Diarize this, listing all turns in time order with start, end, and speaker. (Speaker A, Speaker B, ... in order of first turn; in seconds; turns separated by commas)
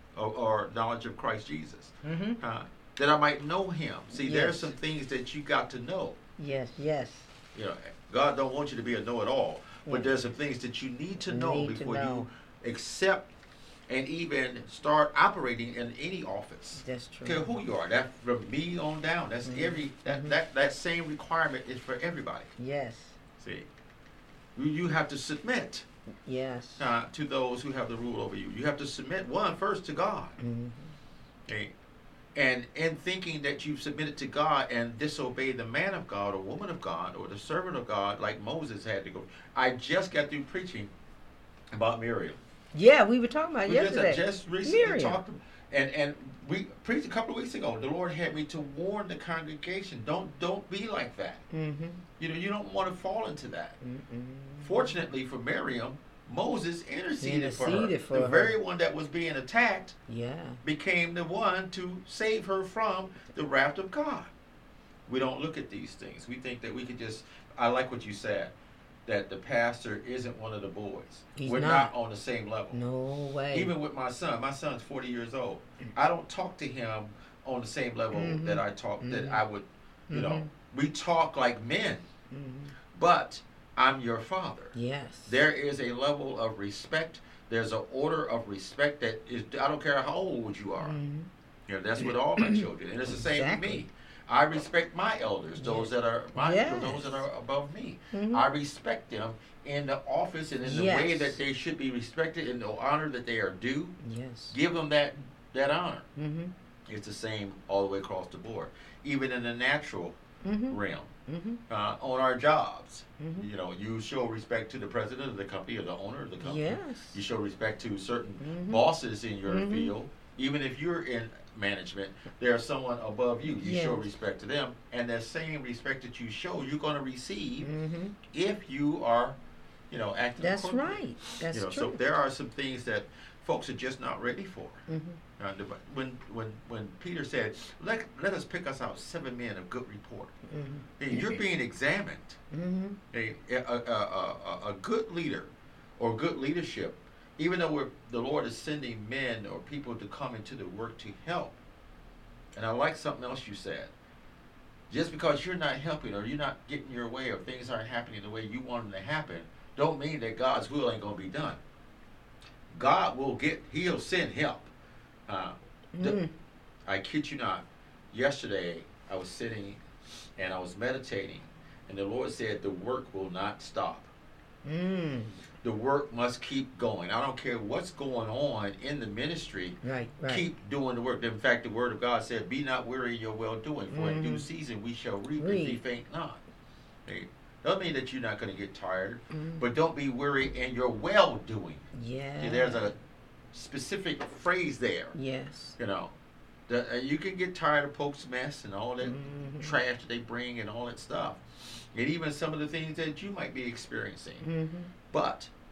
Speaker A: 0.1-6.2, Speaker B: 2.0-2.4, Speaker B: 4.1-4.7, Speaker B: 6.4-7.3, Speaker A: 7.5-13.3, Speaker B: 11.3-12.3, Speaker A: 13.9-22.5, Speaker B: 16.8-17.6, Speaker B: 19.5-20.4, Speaker B: 22.6-23.2, Speaker A: 23.4-23.7, Speaker A: 24.6-25.9, Speaker B: 26.3-26.9, Speaker A: 26.8-30.4, Speaker B: 30.4-30.9, Speaker A: 31.5-31.7, Speaker A: 32.4-40.9, Speaker A: 41.7-42.4, Speaker B: 42.7-45.2, Speaker A: 43.7-51.4, Speaker B: 51.5-52.0, Speaker A: 52.2-53.8, Speaker B: 53.8-55.0, Speaker A: 54.6-60.0, Speaker B: 57.2-58.6, Speaker B: 60.1-60.6, Speaker A: 60.6-64.3, Speaker A: 65.1-68.5, Speaker A: 69.1-72.8, Speaker B: 71.4-71.9, Speaker B: 72.7-73.7, Speaker A: 73.5-82.1, Speaker B: 78.1-79.4, Speaker B: 80.1-80.5, Speaker B: 82.3-82.7, Speaker A: 82.9-84.8, Speaker B: 84.7-85.4, Speaker A: 85.3-91.0, Speaker B: 90.8-91.3, Speaker A: 91.7-104.0, Speaker B: 92.0-93.8, Speaker B: 95.6-97.2, Speaker B: 98.1-98.4, Speaker B: 100.6-101.4, Speaker B: 104.0-104.5, Speaker A: 104.5-106.1, Speaker B: 106.2-106.5, Speaker A: 106.9-110.2, Speaker B: 110.4-111.6, Speaker A: 110.7-111.1, Speaker A: 111.7-127.7, Speaker B: 113.2-113.5, Speaker B: 116.4-117.2, Speaker B: 118.4-118.8, Speaker B: 119.5-119.9, Speaker B: 123.5-124.1, Speaker B: 127.6-128.2, Speaker A: 128.3-129.4, Speaker A: 129.9-134.8, Speaker B: 130.4-132.0, Speaker B: 134.9-135.2, Speaker A: 135.4-140.3, Speaker B: 140.5-141.4, Speaker A: 141.0-142.4, Speaker B: 142.5-143.0, Speaker A: 143.1-151.6, Speaker A: 152.5-153.9, Speaker A: 154.9-161.6, Speaker A: 162.7-164.7, Speaker A: 165.3-166.2, Speaker B: 165.9-166.3, Speaker A: 166.8-169.8, Speaker A: 170.4-174.1, Speaker B: 174.7-175.4, Speaker A: 175.6-186.4, Speaker B: 179.8-180.5, Speaker B: 183.9-184.5, Speaker B: 185.4-185.8, Speaker A: 187.1-191.9, Speaker B: 189.3-189.6, Speaker B: 191.9-192.9, Speaker A: 192.4-193.0, Speaker A: 193.5-195.2, Speaker B: 195.2-195.8, Speaker A: 195.8-196.1, Speaker A: 196.7-201.4, Speaker B: 199.0-199.8, Speaker A: 201.9-204.4, Speaker B: 204.4-204.9, Speaker A: 205.1-205.5